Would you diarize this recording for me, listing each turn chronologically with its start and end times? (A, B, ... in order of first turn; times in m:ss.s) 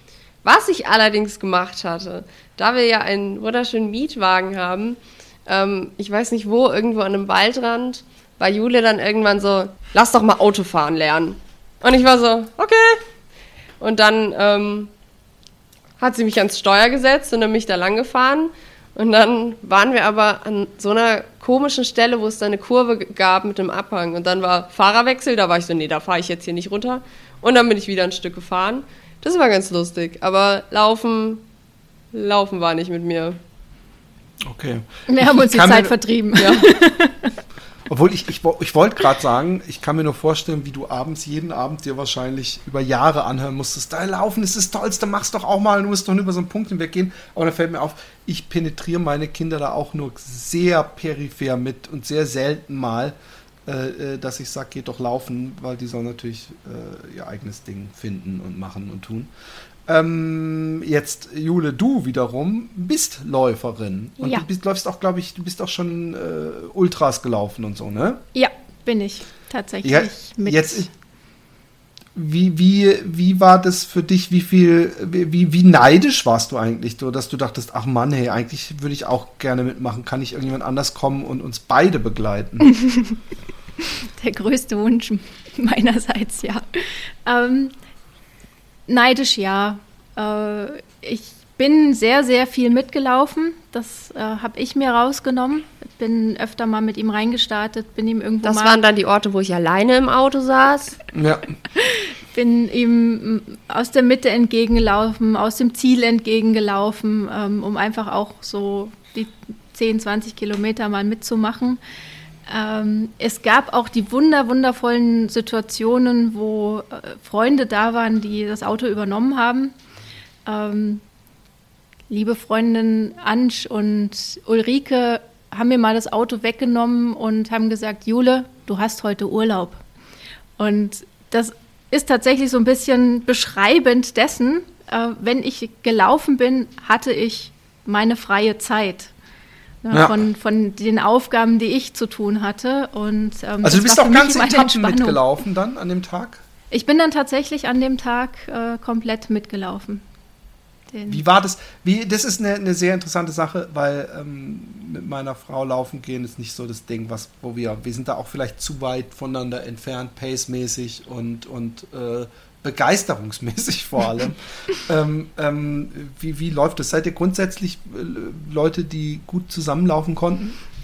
0:00.4-0:13.0 A
0:13.8-0:14.9 A
0:16.0-0:31.4 A
0:32.1-0:33.4 A
0:34.4-0:36.0 B
0:35.1-0:37.3 C
0:36.4-0:36.6 A
0:37.9-0:53.1 B
0:53.6-0:59.3 B
0:59.9-1:08.2 B
1:04.2-1:04.4 C
1:08.3-1:10.9 C
1:09.8-1:10.9 B
1:12.1-1:22.7 B
1:22.6-1:23.2 C
1:24.2-1:27.7 C
1:28.9-1:38.8 C
1:38.4-1:41.0 A
1:41.1-1:41.4 B
1:41.8-1:51.8 C
1:52.5-1:59.7 C
2:00.4-2:01.0 C
2:02.1-2:09.8 C
2:10.6-2:19.1 C
2:19.8-2:25.2 C
2:19.9-2:20.2 B
2:23.6-2:26.4 B
2:26.7-2:30.0 C
2:30.9-2:31.2 C
2:31.1-2:50.6 B